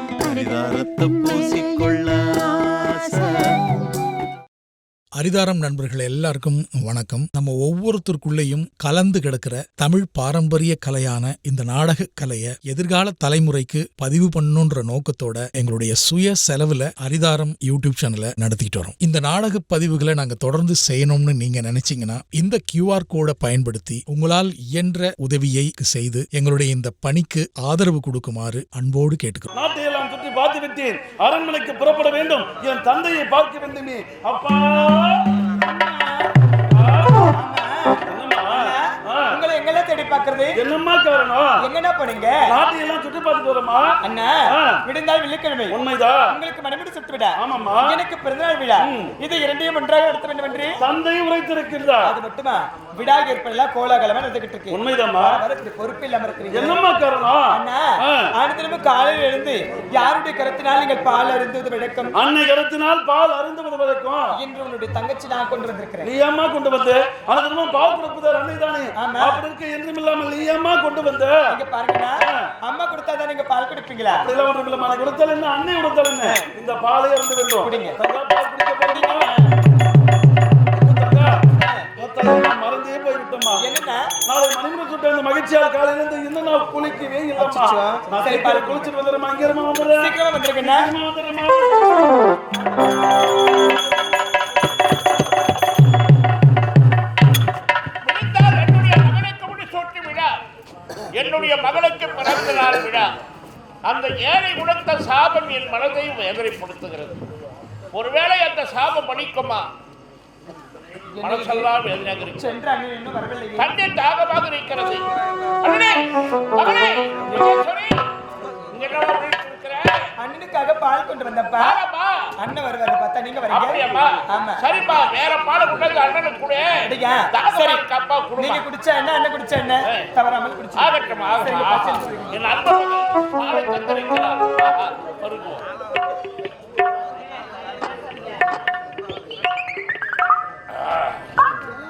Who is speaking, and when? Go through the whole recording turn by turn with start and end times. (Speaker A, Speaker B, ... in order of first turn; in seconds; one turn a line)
Speaker A: 0.2-3.7
Speaker B: 5.2-29.5
Speaker C: 29.5-35.2
Speaker D: 35.5-36.3
Speaker C: 36.7-37.2
Speaker D: 37.2-40.6
Speaker C: 38.1-39.3
Speaker C: 40.5-41.6
Speaker D: 41.6-42.5
Speaker C: 42.5-44.0
Speaker D: 44.0-45.8
Speaker C: 44.5-44.8
Speaker C: 45.7-46.2
Speaker D: 46.3-50.8
Speaker C: 47.4-48.0
Speaker C: 48.9-49.1
Speaker C: 50.8-52.1
Speaker D: 52.0-56.8
Speaker C: 54.7-55.5
Speaker C: 56.5-57.5
Speaker D: 57.5-62.1
Speaker C: 62.1-64.3
Speaker D: 64.3-66.1
Speaker C: 66.0-71.4
Speaker D: 69.0-69.4
Speaker D: 71.5-74.3
Speaker C: 74.1-79.4
Speaker D: 77.6-78.0
Speaker D: 78.8-79.5
Speaker C: 80.7-81.4
Speaker D: 81.6-81.9
Speaker C: 82.0-83.7
Speaker D: 83.5-84.0
Speaker C: 84.3-91.9
Speaker D: 87.4-88.9
Speaker D: 90.0-91.0
Speaker E: 98.0-100.3
Speaker E: 101.2-103.1
Speaker E: 103.8-107.2
Speaker E: 107.9-109.7
Speaker D: 111.1-111.7
Speaker E: 111.2-112.5
Speaker D: 112.3-113.7
Speaker E: 113.6-115.0
Speaker E: 115.6-117.9
Speaker E: 118.7-119.9
Speaker D: 120.2-121.8
Speaker E: 121.6-122.1
Speaker D: 122.4-124.7
Speaker E: 123.5-126.7
Speaker D: 126.9-127.8
Speaker E: 127.3-128.7
Speaker D: 128.3-132.4
Speaker E: 130.8-135.6
Speaker E: 140.8-141.1